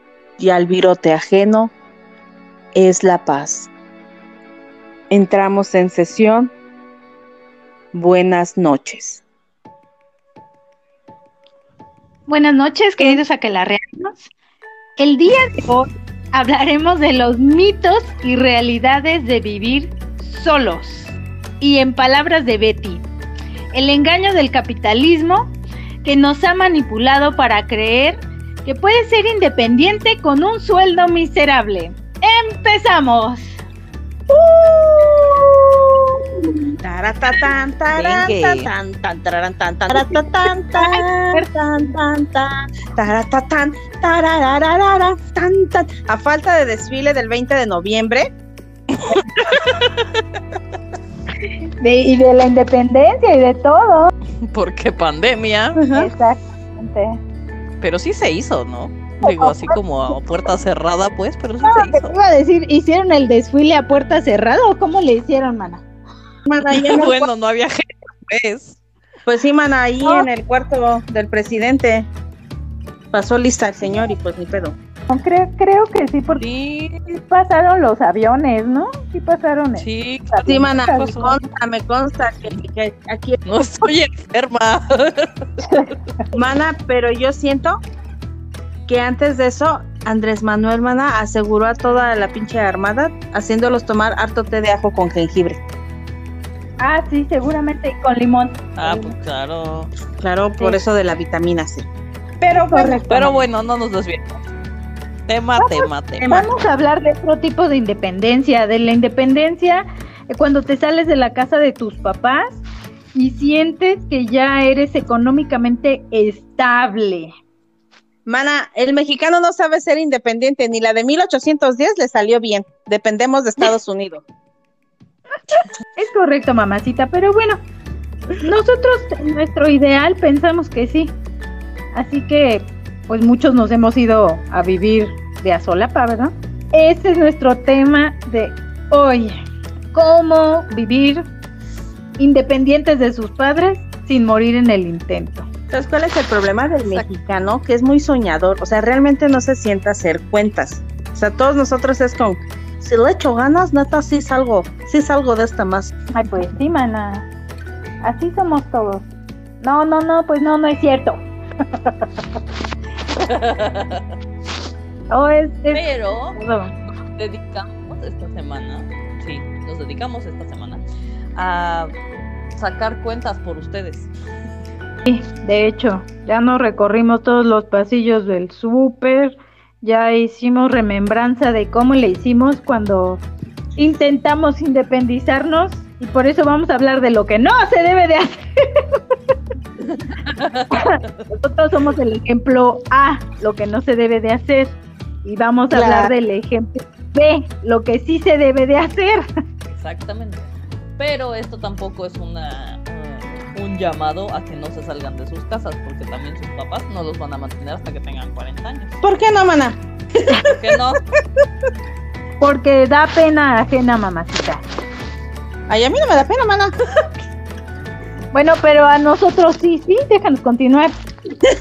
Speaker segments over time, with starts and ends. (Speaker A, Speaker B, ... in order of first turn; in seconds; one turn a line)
Speaker A: 0.4-1.7
Speaker A: 2.8-3.7
Speaker A: 5.1-6.5
Speaker A: 7.9-9.2
Speaker B: 12.3-14.2
Speaker B: 15.0-23.1
Speaker B: 23.7-33.5
Speaker A: 34.4-35.1
Speaker A: 36.8-48.3
Speaker C: 38.0-38.7
Speaker B: 40.8-41.5
Speaker C: 49.0-50.2
Speaker B: 51.8-54.1
Speaker C: 54.5-55.8
Speaker A: 55.8-56.1
Speaker B: 55.9-57.2
Speaker C: 57.8-62.1
Speaker B: 59.2-60.5
Speaker B: 61.6-65.8
Speaker A: 66.5-67.3
Speaker C: 66.7-68.8
Speaker A: 69.3-72.1
Speaker A: 73.1-74.8
Speaker B: 75.1-76.5
Speaker C: 76.4-77.1
Speaker B: 77.2-81.4
Speaker C: 79.8-80.4
Speaker A: 80.4-83.4
Speaker C: 83.5-85.5
Speaker A: 86.3-87.8
Speaker A: 88.9-95.6
Speaker B: 96.8-99.1
Speaker C: 98.8-99.9
Speaker A: 100.2-101.9
Speaker A: 102.4-103.4
Speaker B: 102.7-103.0
Speaker C: 103.1-104.4
Speaker C: 105.3-106.3
Speaker B: 105.6-112.6
Speaker A: 106.2-106.5
Speaker B: 113.1-117.3
Speaker A: 118.3-124.2
Speaker B: 126.0-127.6
Speaker B: 128.4-131.2
Speaker B: 131.9-139.4
Speaker B: 139.9-141.2
Speaker B: 142.2-145.5
Speaker A: 145.7-155.9
Speaker B: 156.1-157.3
Speaker B: 158.0-159.1
Speaker B: 159.6-162.2
Speaker C: 163.2-164.1
Speaker B: 165.1-166.7
Speaker C: 165.7-166.4
Speaker C: 167.1-170.8
Speaker C: 171.4-171.9
Speaker C: 172.6-174.1
Speaker B: 175.1-183.2
Speaker B: 183.8-188.4
Speaker C: 189.8-191.2
Speaker B: 190.7-199.2
Speaker A: 195.7-196.1
Speaker C: 199.7-209.0
Speaker A: 209.0-209.8
Speaker C: 210.4-211.0
Speaker B: 212.4-214.6
Speaker A: 215.7-216.7
Speaker B: 218.3-220.9